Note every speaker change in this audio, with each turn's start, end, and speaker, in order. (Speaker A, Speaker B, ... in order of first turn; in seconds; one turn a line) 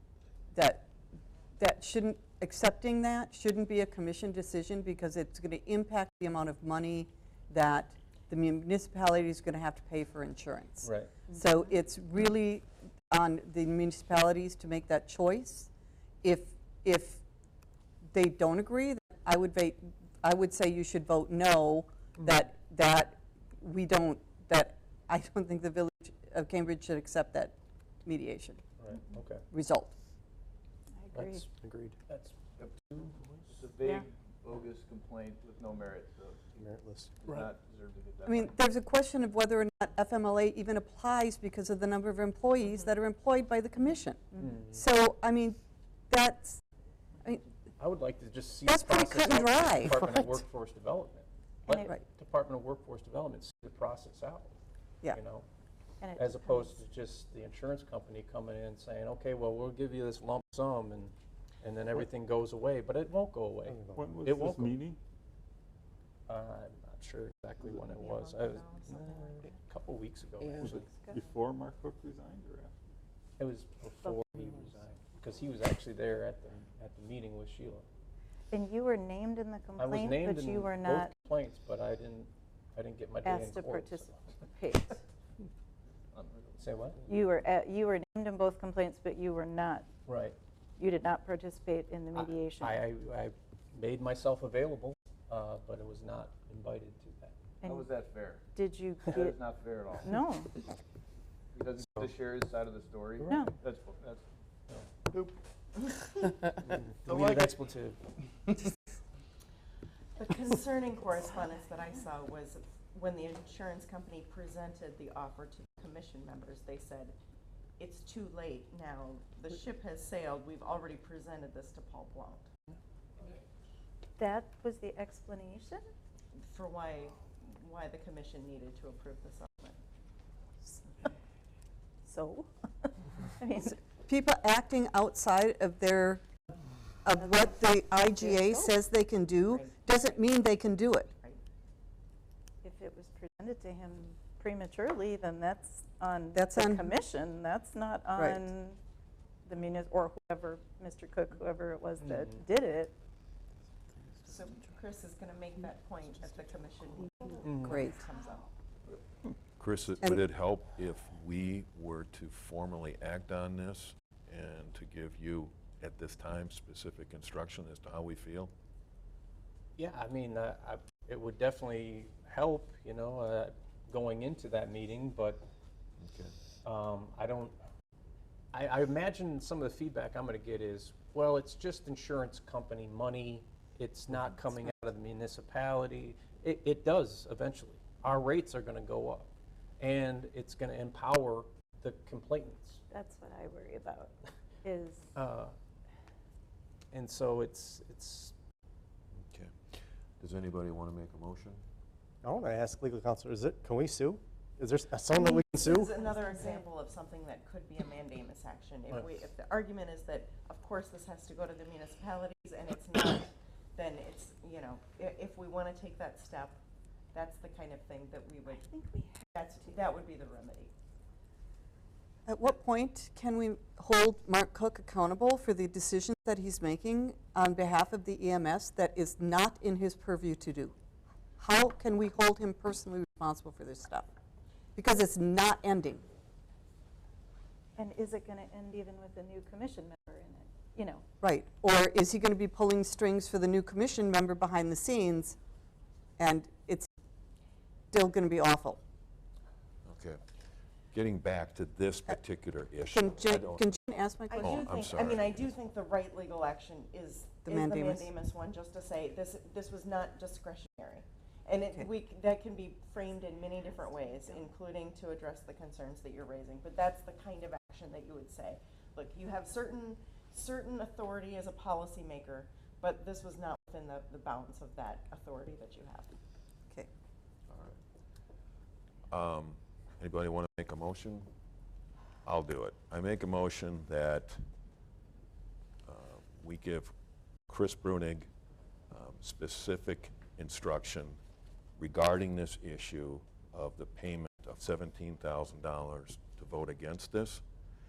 Speaker A: 0.5-0.9
Speaker A: 1.6-15.7
Speaker B: 10.8-11.3
Speaker A: 16.2-17.2
Speaker A: 18.1-28.6
Speaker B: 22.2-22.4
Speaker B: 28.8-29.5
Speaker A: 29.5-29.9
Speaker C: 31.0-31.4
Speaker B: 31.1-33.1
Speaker D: 32.6-32.8
Speaker D: 33.5-38.7
Speaker E: 36.6-37.1
Speaker A: 38.3-45.6
Speaker B: 44.4-44.8
Speaker A: 46.1-46.6
Speaker B: 47.8-54.6
Speaker A: 48.7-50.0
Speaker B: 55.1-55.5
Speaker C: 56.0-56.4
Speaker B: 56.1-64.8
Speaker E: 63.7-64.0
Speaker F: 64.0-65.0
Speaker B: 66.3-70.9
Speaker G: 67.9-69.2
Speaker F: 70.6-72.8
Speaker B: 73.4-77.9
Speaker C: 78.5-81.1
Speaker B: 79.8-84.5
Speaker C: 83.3-84.9
Speaker D: 86.1-87.0
Speaker B: 86.6-87.0
Speaker C: 87.1-89.9
Speaker B: 90.1-90.4
Speaker C: 90.8-92.7
Speaker B: 92.1-97.4
Speaker D: 97.6-98.5
Speaker C: 98.6-99.3
Speaker D: 99.1-100.3
Speaker D: 101.5-104.2
Speaker B: 106.7-108.0
Speaker G: 110.2-117.2
Speaker G: 117.8-122.5
Speaker C: 124.2-125.9
Speaker G: 126.4-129.8
Speaker C: 132.1-133.8
Speaker A: 134.1-136.2
Speaker A: 137.1-141.1
Speaker C: 138.2-138.7
Speaker G: 139.5-140.2
Speaker C: 142.6-148.8
Speaker A: 146.3-147.0
Speaker A: 148.2-148.5
Speaker C: 149.5-152.9
Speaker B: 152.0-152.4
Speaker G: 154.3-158.5
Speaker B: 157.4-157.8
Speaker A: 157.6-158.0
Speaker H: 159.6-168.5
Speaker B: 169.8-175.4
Speaker H: 176.0-176.3
Speaker B: 176.6-177.6
Speaker B: 178.5-192.8
Speaker C: 192.9-195.1
Speaker B: 195.1-195.6
Speaker B: 196.9-198.3
Speaker H: 199.2-199.6
Speaker H: 200.2-201.6
Speaker E: 202.2-205.9
Speaker G: 205.2-216.6
Speaker G: 217.1-218.7
Speaker C: 218.7-219.3
Speaker G: 219.3-220.7
Speaker A: 222.3-230.8
Speaker A: 231.4-234.1
Speaker A: 234.8-236.1
Speaker C: 237.8-241.0
Speaker A: 241.2-245.4
Speaker A: 246.2-246.9
Speaker A: 247.9-248.8
Speaker H: 249.8-250.2
Speaker H: 250.9-253.7
Speaker A: 252.9-254.8
Speaker G: 254.3-276.1
Speaker H: 254.4-255.5
Speaker A: 257.5-258.1
Speaker H: 277.5-277.8
Speaker H: 279.1-281.3
Speaker H: 282.2-284.4
Speaker H: 285.9-286.9
Speaker H: 287.5-288.3
Speaker H: 288.9-291.2
Speaker H: 291.8-297.4